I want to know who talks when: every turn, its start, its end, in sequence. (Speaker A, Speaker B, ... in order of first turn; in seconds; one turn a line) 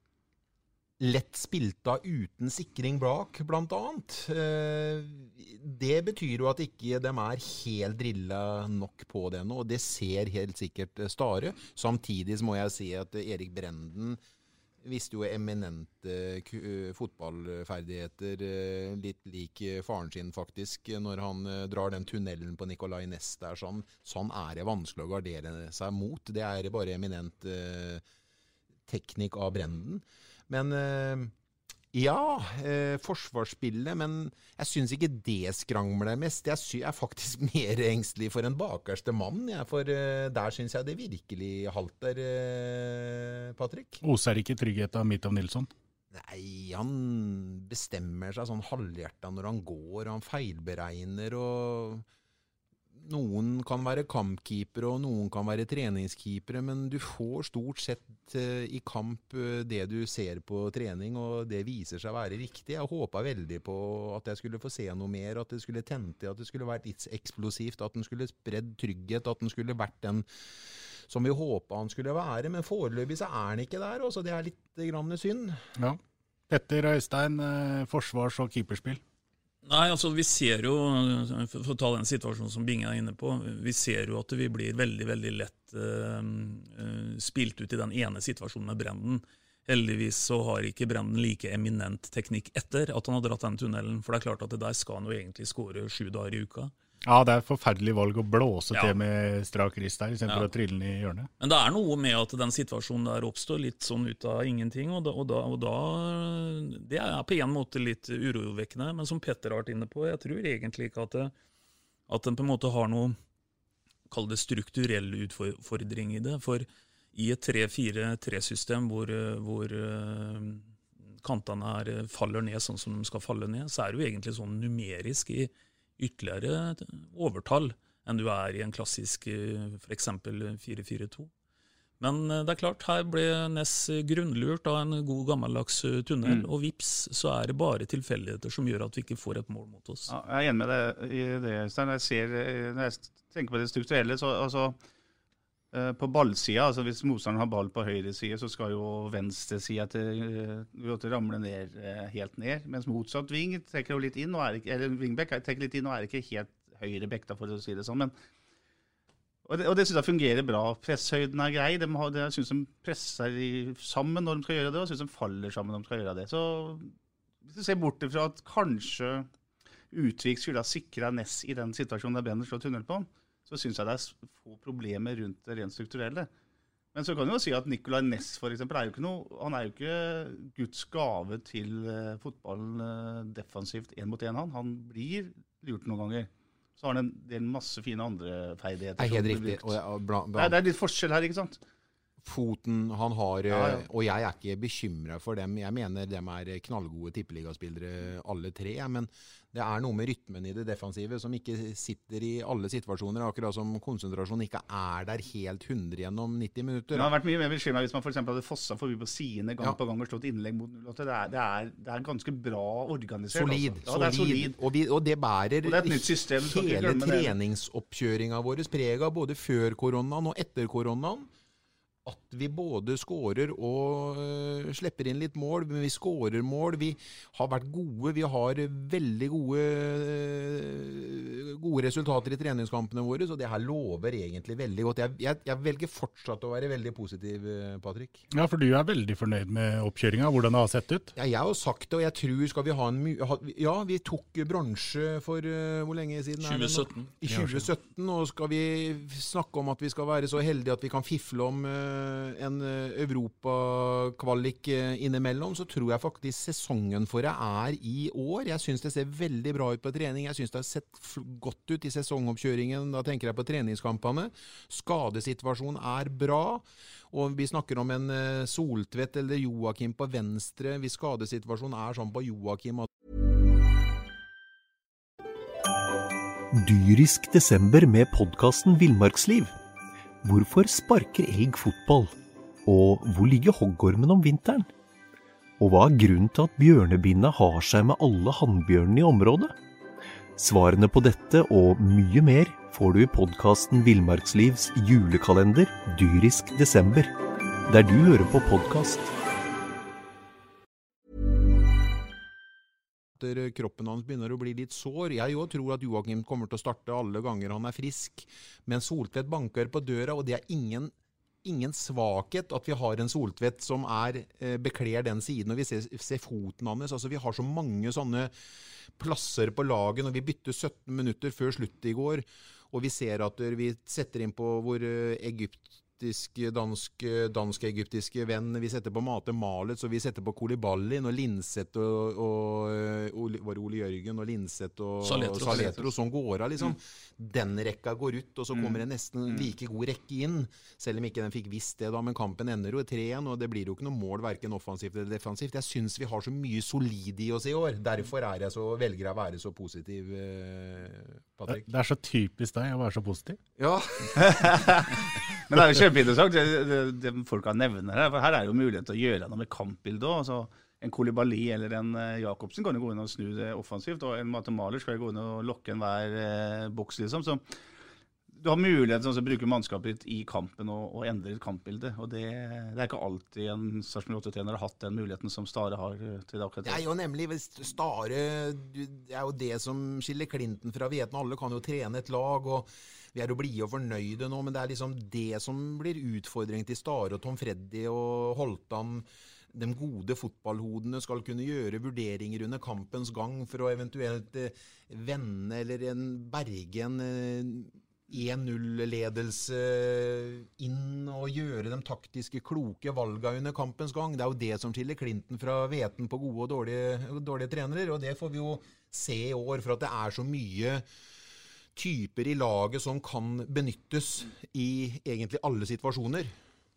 Speaker A: 1.0-14.2
Speaker A: 14.8-28.0
Speaker A: 28.9-31.3
Speaker A: 31.9-44.0
Speaker B: 44.0-45.7
Speaker A: 46.1-52.0
Speaker A: 52.9-70.2
Speaker A: 71.1-75.6
Speaker B: 76.5-79.0
Speaker C: 79.6-96.7
Speaker B: 97.0-101.3
Speaker C: 101.4-111.3
Speaker C: 112.1-113.2
Speaker C: 114.1-120.7
Speaker C: 121.2-131.3
Speaker C: 132.0-140.1
Speaker D: 140.1-144.8
Speaker D: 145.7-158.1
Speaker D: 159.4-166.9
Speaker D: 167.4-169.3
Speaker D: 169.9-176.3
Speaker D: 176.9-189.8
Speaker A: 189.0-190.6
Speaker D: 190.3-191.6
Speaker A: 192.2-207.1
Speaker D: 193.5-193.8
Speaker D: 206.9-214.6
Speaker A: 213.3-221.3
Speaker D: 215.6-217.3
Speaker A: 222.0-238.2
Speaker B: 238.3-241.1
Speaker A: 241.1-272.9
Speaker C: 246.4-247.1
Speaker E: 276.5-279.5
Speaker E: 280.2-282.1
Speaker E: 282.6-284.7
Speaker E: 285.6-289.5
Speaker E: 290.4-297.1
Speaker E: 297.7-299.1
Speaker A: 303.2-310.9
Speaker A: 311.4-318.3
Speaker A: 318.9-351.7
Speaker C: 335.0-335.9
Speaker B: 351.5-353.4
Speaker A: 353.6-354.3
Speaker D: 354.1-367.4
Speaker D: 368.3-376.8
Speaker A: 376.6-410.9
Speaker A: 411.7-416.3